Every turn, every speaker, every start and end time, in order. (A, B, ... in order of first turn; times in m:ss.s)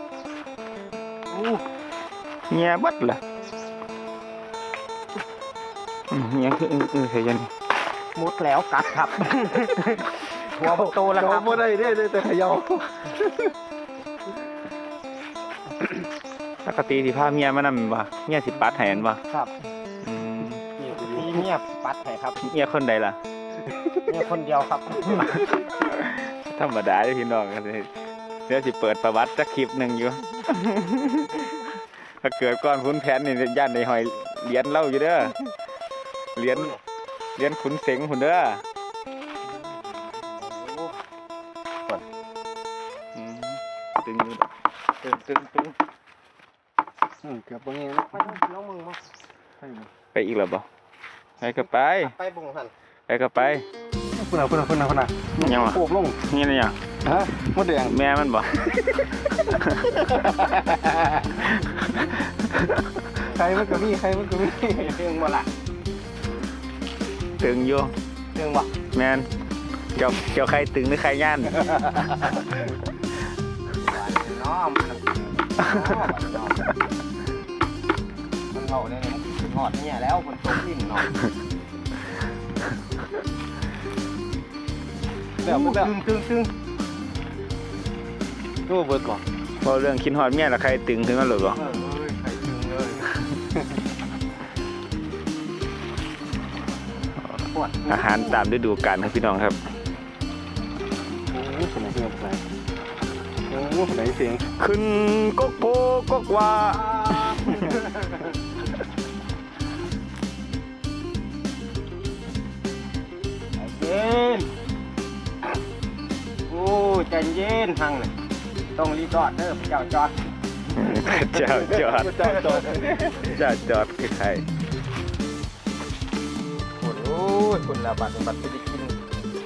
0:01.3-0:01.6 A
0:02.5-0:03.2 B
0:06.1-0:07.5 B
0:08.1-0:11.9 A
0:10.9-0:13.5 C
0:16.6-0:19.2 B
0:20.0-0:20.6 B
0:20.8-0:21.3 C
0:21.0-0:22.4 A
0:22.4-0:23.2 B
0:24.1-0:25.5 A
0:26.0-0:27.9 B
0:28.5-0:31.5 B
0:32.2-0:35.3 B
0:36.4-0:36.8 B
0:36.5-0:36.8 A
0:37.4-0:38.6 B
0:40.4-0:41.0 A
0:43.1-0:44.5 B
0:45.0-0:45.7 B
0:47.2-0:48.1 C
0:48.1-0:49.0 A
0:49.6-0:49.9 C
0:50.1-0:50.6 B
0:51.4-0:52.1 B
0:51.6-0:52.7 A
0:53.1-0:53.6 B
0:54.1-0:56.2 C
0:55.4-0:56.8 B
0:57.0-0:58.0 C
0:57.8-0:58.7 B
0:59.3-1:00.6 B
1:00.3-1:00.7 C
1:01.4-1:03.0 B
1:03.3-1:05.0 C
1:04.7-1:05.5 A
1:07.4-1:07.9 B
1:08.3-1:08.7 A
1:08.9-1:09.3 B
1:09.9-1:11.7 B
1:13.8-1:16.6 A
1:18.5-1:21.1 A
1:25.4-1:26.5 A
1:25.4-1:25.9 C
1:28.7-1:29.2 C
1:29.6-1:31.6 B
1:31.6-1:33.0 A
1:37.5-1:38.4 A
1:37.9-1:39.6 B
1:41.3-1:42.4 C
1:43.5-1:44.4 C
1:44.6-1:47.7 B
1:46.6-1:48.2 A
1:53.6-1:54.5 A
1:56.5-1:58.1 A
1:58.7-2:00.2 A
2:00.7-2:02.3 B
2:01.0-2:01.5 A
2:01.8-2:03.0 C
2:02.0-2:02.9 A
2:03.1-2:04.4 B
2:06.8-2:08.9 A